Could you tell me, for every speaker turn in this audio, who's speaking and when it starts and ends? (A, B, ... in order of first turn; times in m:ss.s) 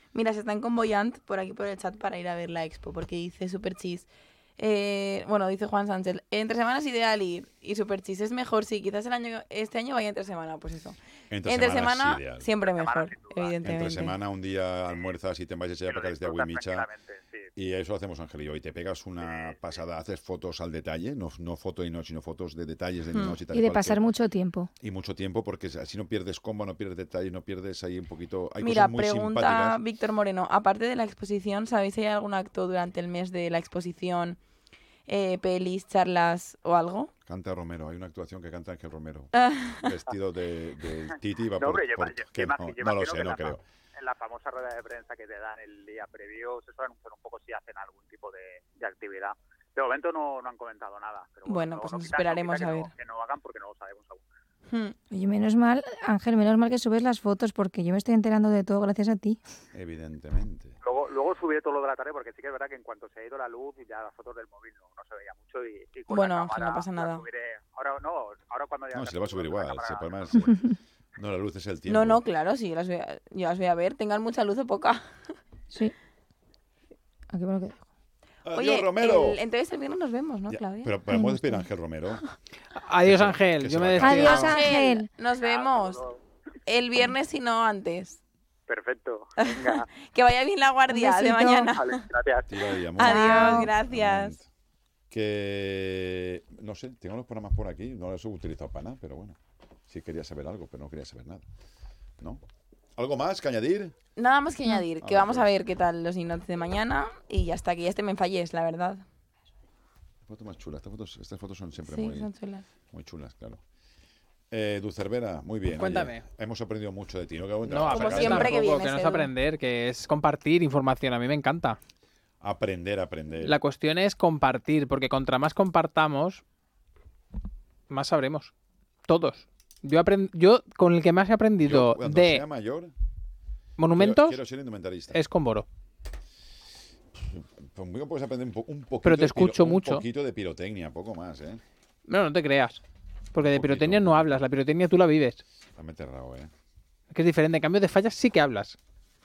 0:00.1-0:14.2 A
0:11.3-0:12.4 B
0:12.6-0:13.6 C
0:13.6-0:16.9 B
0:15.9-0:17.5 C
0:17.6-0:24.0 B
0:19.2-0:19.7 C
0:23.1-0:23.4 A
0:23.5-0:24.7 D
0:24.8-0:29.8 B
0:28.6-0:34.4 A
0:35.1-0:37.1 A
0:37.2-0:43.6 B
0:39.4-0:39.9 A
0:41.6-0:54.2 C
0:51.4-0:52.9 A
0:54.7-0:55.0 A
0:55.1-0:59.4 D
0:59.7-1:00.8 B
1:00.8-1:10.3 C
1:06.1-1:07.2 A
1:08.9-1:12.2 B
1:11.9-1:15.2 A
1:17.3-1:17.8 D
1:18.4-1:19.4 B
1:18.5-1:20.9 A
1:20.5-1:22.2 B
1:21.1-1:21.6 D
1:22.7-1:24.5 E
1:23.0-1:24.6 B
1:24.0-1:25.1 D
1:24.2-1:26.0 A
1:25.4-1:26.2 C
1:26.6-1:28.2 A
1:28.7-1:29.8 C
1:29.4-1:32.0 A
1:30.9-1:31.7 D
1:31.8-1:32.6 C
1:32.5-1:34.5 B
1:33.0-1:34.4 A
1:33.0-1:33.7 D
1:35.1-1:39.4 B
1:39.9-1:41.4 B
1:43.0-1:43.9 B
1:44.2-1:49.0 A
1:45.0-1:45.5 B
1:50.2-1:52.3 B
1:51.9-1:52.6 A
1:52.9-1:53.6 B
1:54.5-1:58.6 B
1:55.7-1:56.2 E
1:57.6-2:01.8 E
1:57.9-1:59.3 A
2:02.4-2:03.6 B
2:03.4-2:06.4 E
2:07.9-2:08.5 E
2:09.1-2:12.4 E
2:11.6-2:12.9 B
2:13.8-2:14.4 E
2:13.9-2:15.2 B
2:15.1-2:15.7 E
2:17.2-2:21.6 B
2:19.0-2:20.0 E
2:22.1-2:22.8 E
2:23.3-2:25.4 E
2:23.4-2:24.4 B
2:25.7-2:26.5 B
2:27.1-2:28.8 E